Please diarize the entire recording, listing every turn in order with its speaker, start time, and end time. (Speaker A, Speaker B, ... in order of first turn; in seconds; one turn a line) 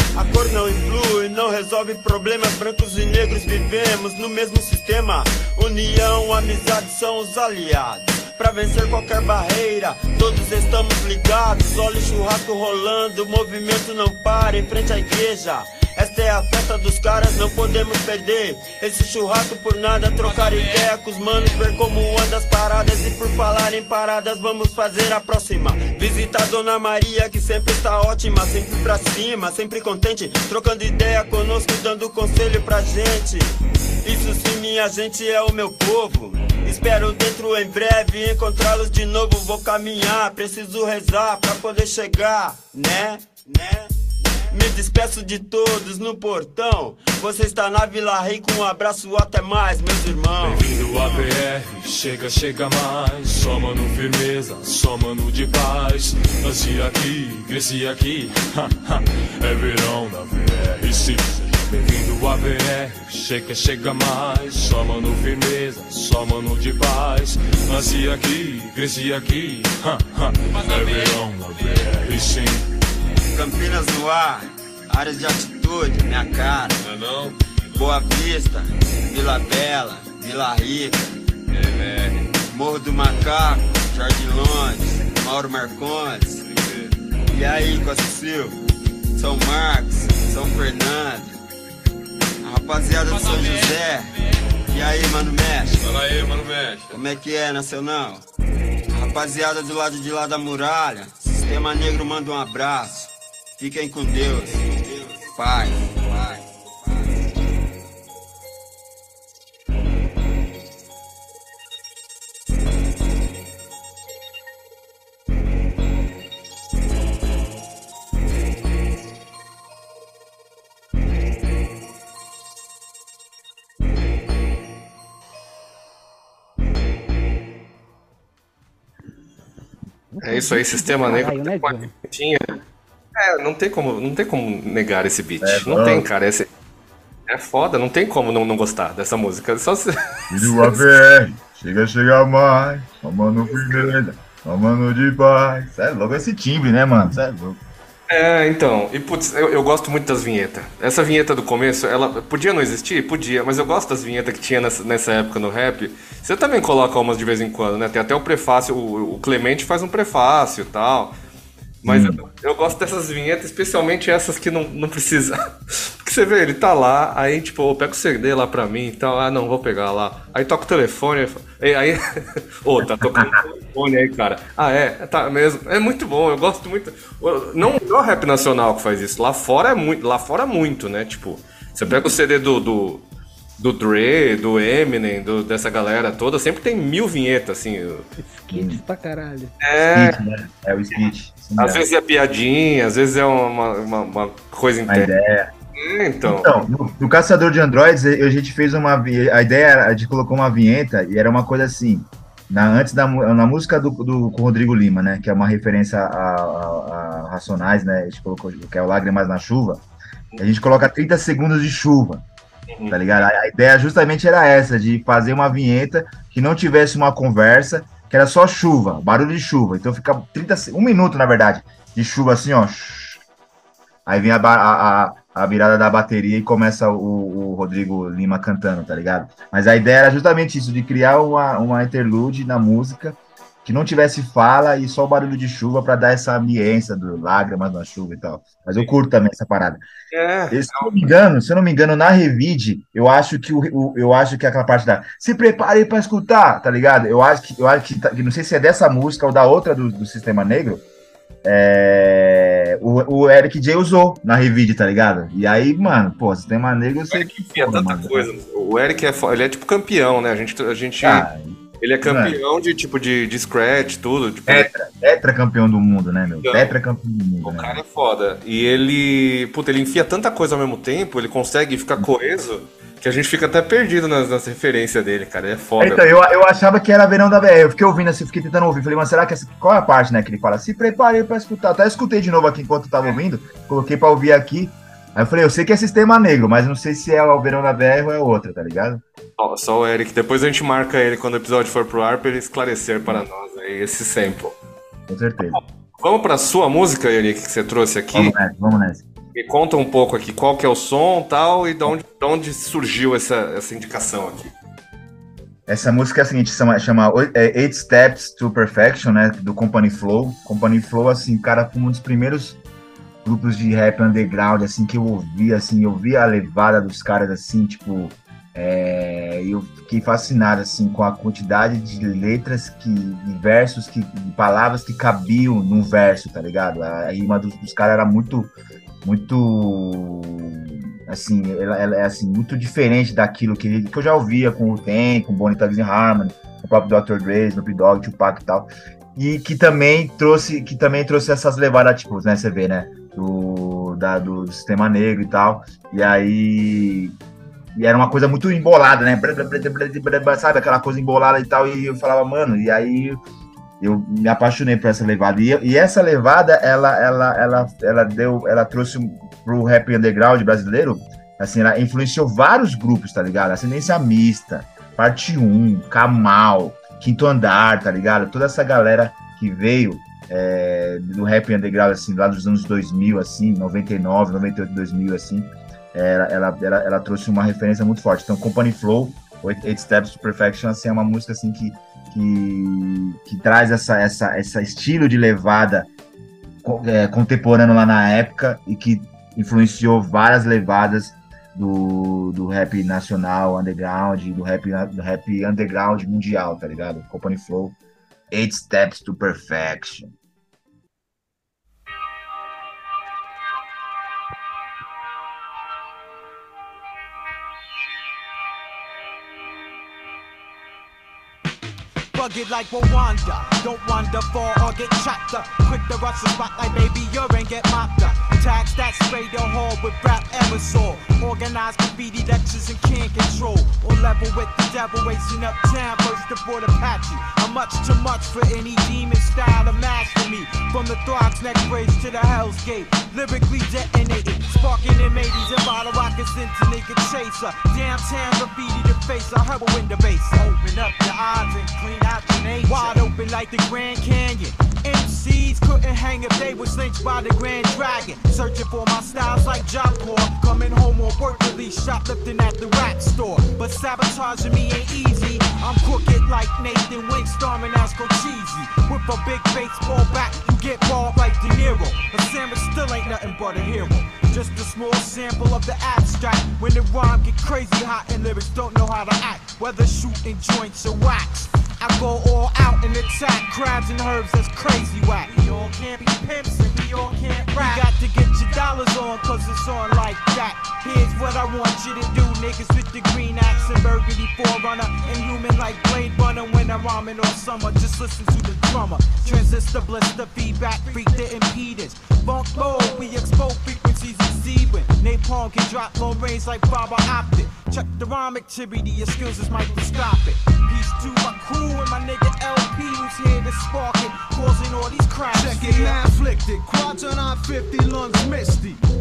Speaker A: 0.1-43.9
Speaker A: 44.5-51.2
Speaker B: 50.4-72.7
Speaker A: 73.3-76.8
Speaker A: 77.7-81.1
Speaker C: 81.5-82.3
Speaker A: 82.5-86.4
Speaker C: 86.5-86.9
Speaker A: 87.3-88.6
Speaker A: 89.2-91.4
Speaker A: 92.4-94.1
Speaker A: 94.7-95.8
Speaker C: 95.8-96.9
Speaker A: 96.9-98.3
Speaker A: 98.9-107.0
Speaker D: 130.1-131.9
Speaker E: 130.2-132.6
Speaker E: 133.2-136.5
Speaker F: 135.4-136.1
Speaker E: 137.3-140.8
Speaker F: 140.3-147.6
Speaker E: 143.5-143.9
Speaker E: 148.1-161.2
Speaker E: 161.8-172.0
Speaker F: 161.8-162.2
Speaker E: 172.6-183.0
Speaker F: 172.8-173.4
Speaker F: 181.8-182.1
Speaker E: 183.6-188.1
Speaker D: 188.2-189.5
Speaker F: 188.5-188.8
Speaker E: 189.6-190.2
Speaker F: 189.9-191.8
Speaker E: 191.6-195.1
Speaker F: 194.9-195.5
Speaker E: 195.8-196.6
Speaker F: 196.2-209.8
Speaker F: 210.4-212.2
Speaker E: 212.7-213.0
Speaker F: 212.9-223.2
Speaker F: 224.1-239.8
Speaker E: 240.1-240.9
Speaker F: 240.5-250.8
Speaker F: 251.4-258.3
Speaker E: 257.1-261.3
Speaker F: 261.0-262.4
Speaker E: 261.8-264.7
Speaker F: 264.5-267.8
Speaker E: 266.4-266.7
Speaker E: 267.4-276.0
Speaker F: 275.8-289.0
Speaker E: 289.4-294.6
Speaker F: 295.1-295.6
Speaker E: 295.5-298.4
Speaker F: 298.1-299.1
Speaker E: 299.4-304.5
Speaker F: 305.7-312.6
Speaker F: 313.2-347.1
Speaker F: 347.8-353.2
Speaker F: 353.8-385.9
Speaker F: 386.6-397.8
Speaker F: 398.3-400.1
Speaker G: 412.1-506.0
Speaker H: 505.3-508.8